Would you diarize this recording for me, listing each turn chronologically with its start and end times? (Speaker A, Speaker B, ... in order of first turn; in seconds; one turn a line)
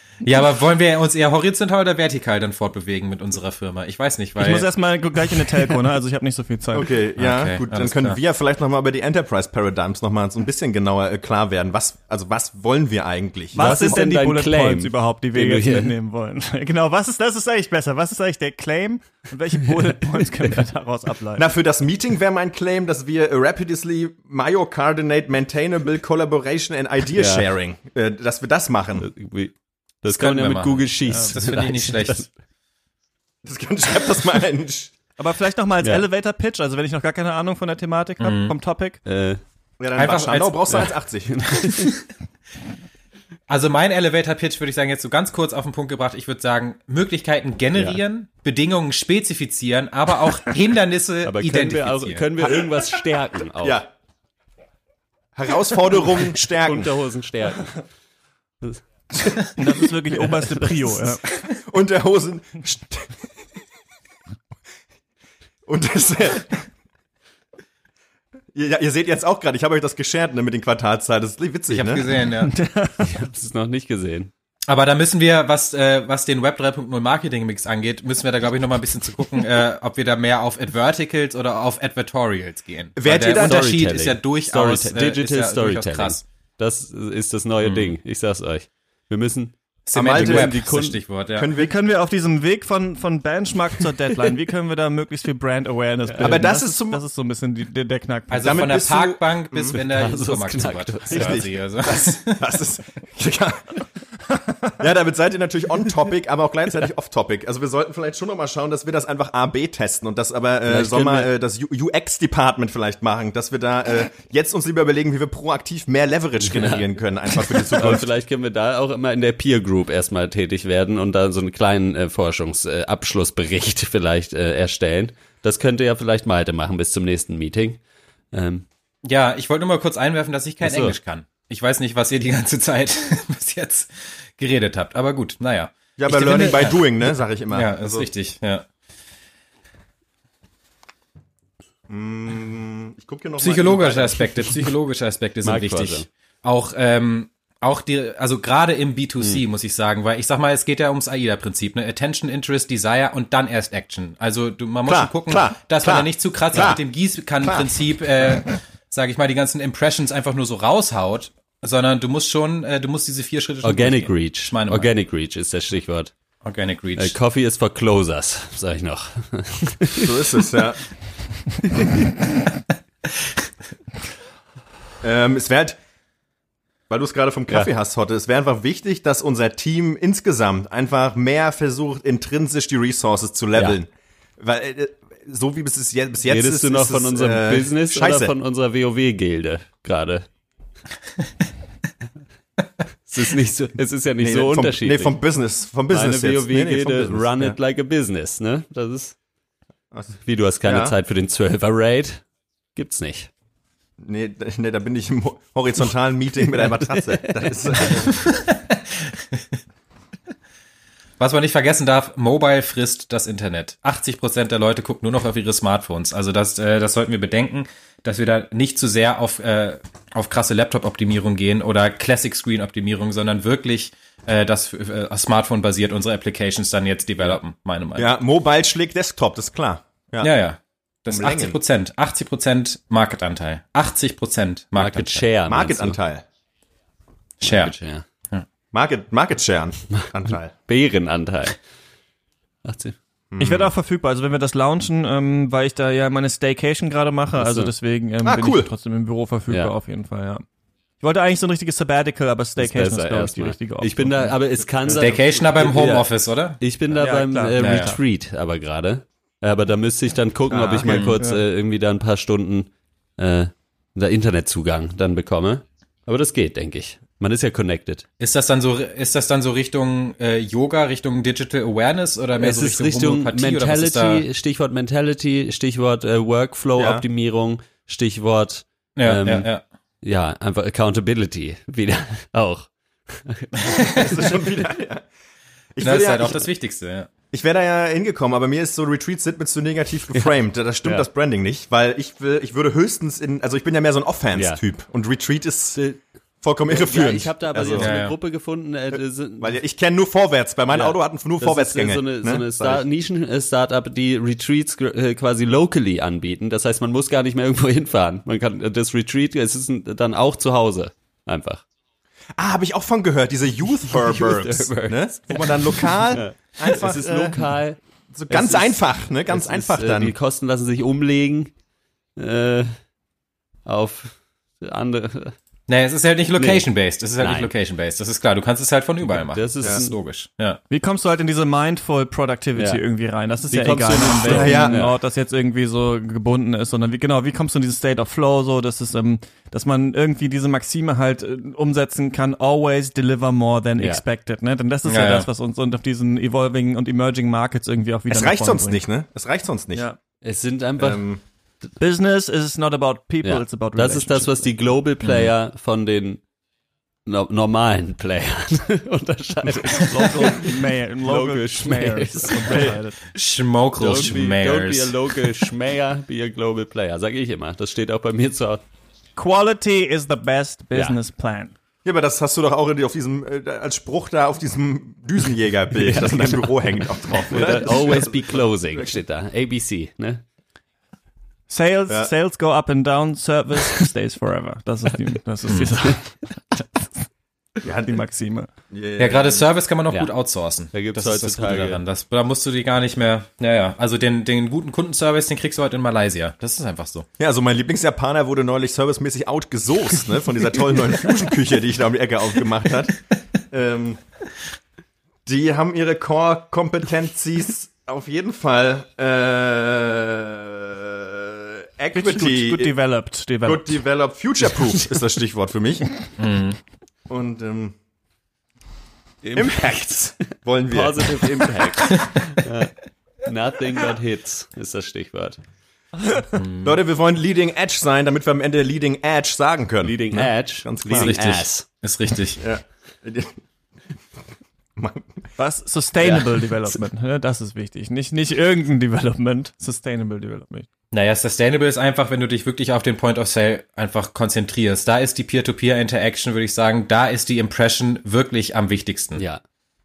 Speaker A: 0.2-4.7
Speaker B: 4.4-6.9
Speaker C: 6.7-14.0
Speaker A: 7.2-8.2
Speaker B: 13.5-21.5
Speaker D: 13.6-16.0
Speaker C: 21.4-29.1
Speaker D: 27.1-27.5
Speaker D: 29.0-32.3
Speaker A: 30.1-32.3
Speaker B: 31.1-31.4
Speaker C: 33.4-34.9
Speaker B: 35.2-39.0
Speaker A: 38.2-38.5
Speaker D: 39.1-39.4
Speaker C: 39.8-41.5
Speaker A: 40.0-40.9
Speaker D: 40.8-42.0
Speaker A: 43.5-52.2
Speaker D: 47.8-48.0
Speaker D: 51.2-53.8
Speaker C: 53.6-53.9
Speaker C: 55.4-56.9
Speaker D: 56.1-57.8
Speaker D: 58.6-59.5
Speaker B: 59.6-61.2
Speaker D: 60.3-61.1
Speaker C: 61.5-63.3
Speaker C: 65.7-66.7
Speaker C: 68.5-72.2
Speaker A: 71.7-72.5
Speaker B: 72.4-73.1
Speaker D: 73.0-74.3
Speaker A: 74.7-86.2
Speaker C: 83.0-83.8
Speaker D: 83.2-91.0
Speaker A: 87.6-87.9
Speaker A: 89.9-91.5
Speaker C: 89.9-90.6
Speaker C: 91.3-91.7
Speaker B: 91.5-98.8
Speaker C: 96.2-97.0
Speaker A: 98.3-102.5
Speaker C: 98.4-99.8
Speaker D: 99.7-101.5
Speaker C: 101.1-103.8
Speaker C: 104.7-118.1
Speaker D: 110.7-111.3
Speaker D: 116.5-127.8
Speaker D: 128.3-128.7
Speaker A: 129.0-136.9
Speaker D: 130.6-131.0
Speaker C: 136.0-138.1
Speaker A: 137.5-138.7
Speaker C: 141.9-144.4
Speaker A: 143.4-164.9
Speaker D: 145.4-146.1
Speaker C: 154.9-156.8
Speaker C: 157.4-157.8
Speaker D: 163.6-166.1
Speaker A: 166.4-167.1
Speaker D: 167.0-170.2
Speaker C: 169.9-170.8
Speaker C: 175.0-175.8
Speaker C: 176.9-188.3
Speaker D: 186.3-190.3
Speaker D: 193.1-195.2
Speaker C: 194.2-197.6
Speaker D: 195.9-199.2
Speaker C: 199.9-200.9
Speaker D: 200.2-203.3
Speaker C: 204.0-208.2
Speaker D: 207.2-207.9
Speaker A: 208.0-209.4
Speaker A: 211.2-228.1
Speaker C: 228.0-230.3
Speaker A: 230.2-235.3
Speaker C: 231.1-231.6
Speaker D: 234.8-236.0
Speaker C: 235.5-236.2
Speaker A: 237.4-237.8
Speaker D: 237.4-238.0
Speaker C: 238.7-240.5
Speaker D: 240.7-241.6
Speaker D: 242.7-243.0
Speaker C: 243.3-243.7
Speaker B: 243.4-250.4
Speaker D: 247.4-247.7
Speaker C: 248.2-248.7
Speaker B: 251.0-254.4
Speaker D: 252.6-268.1
Speaker A: 254.9-256.6
Speaker B: 256.9-258.0
Speaker A: 257.6-258.0
Speaker C: 260.5-261.2
Speaker A: 260.8-261.2
Speaker A: 268.2-274.2
Speaker D: 272.4-279.5
Speaker C: 276.8-277.1
Speaker A: 279.0-279.6
Speaker D: 280.0-284.1
Speaker A: 283.6-284.1
Speaker C: 283.9-285.1
Speaker C: 285.7-286.5
Speaker A: 285.8-287.1
Speaker C: 287.3-295.8
Speaker D: 290.1-291.1
Speaker D: 294.4-294.6
Speaker D: 295.8-296.0
Speaker C: 296.4-297.9
Speaker D: 296.7-299.6
Speaker A: 297.8-298.2
Speaker C: 299.4-302.9
Speaker D: 300.7-311.6
Speaker C: 312.4-317.4
Speaker D: 313.9-317.8
Speaker C: 318.1-320.1
Speaker D: 318.3-321.5
Speaker D: 322.2-322.7
Speaker D: 323.7-325.4
Speaker A: 325.7-330.6
Speaker D: 326.4-327.5
Speaker D: 329.0-330.0
Speaker B: 330.7-348.8
Speaker D: 332.6-332.8
Speaker D: 333.5-335.0
Speaker C: 334.2-334.9
Speaker A: 344.9-345.3
Speaker C: 348.1-349.9
Speaker D: 350.2-351.1
Speaker C: 350.8-351.2
Speaker B: 351.8-354.5
Speaker D: 353.2-356.2
Speaker A: 355.0-355.3
Speaker D: 357.1-362.8
Speaker B: 359.8-363.0
Speaker A: 363.1-365.1
Speaker D: 363.8-368.6
Speaker B: 369.2-371.5
Speaker C: 371.9-378.9
Speaker D: 375.8-380.2
Speaker B: 381.5-386.9
Speaker B: 387.6-388.5
Speaker C: 388.7-389.5
Speaker A: 389.0-397.1
Speaker D: 390.7-391.8
Speaker C: 397.2-404.0
Speaker C: 405.3-412.8
Speaker B: 411.9-413.8
Speaker C: 413.4-415.9
Speaker A: 416.2-416.6
Speaker C: 417.1-417.8
Speaker D: 419.2-419.8
Speaker C: 419.3-421.7
Speaker D: 420.7-425.4
Speaker A: 426.3-426.8
Speaker C: 426.6-431.2
Speaker D: 429.8-431.7
Speaker A: 430.9-432.4
Speaker C: 432.4-433.4
Speaker C: 434.8-435.2
Speaker B: 435.4-440.7
Speaker D: 436.0-436.4
Speaker A: 440.9-449.2
Speaker D: 449.2-449.4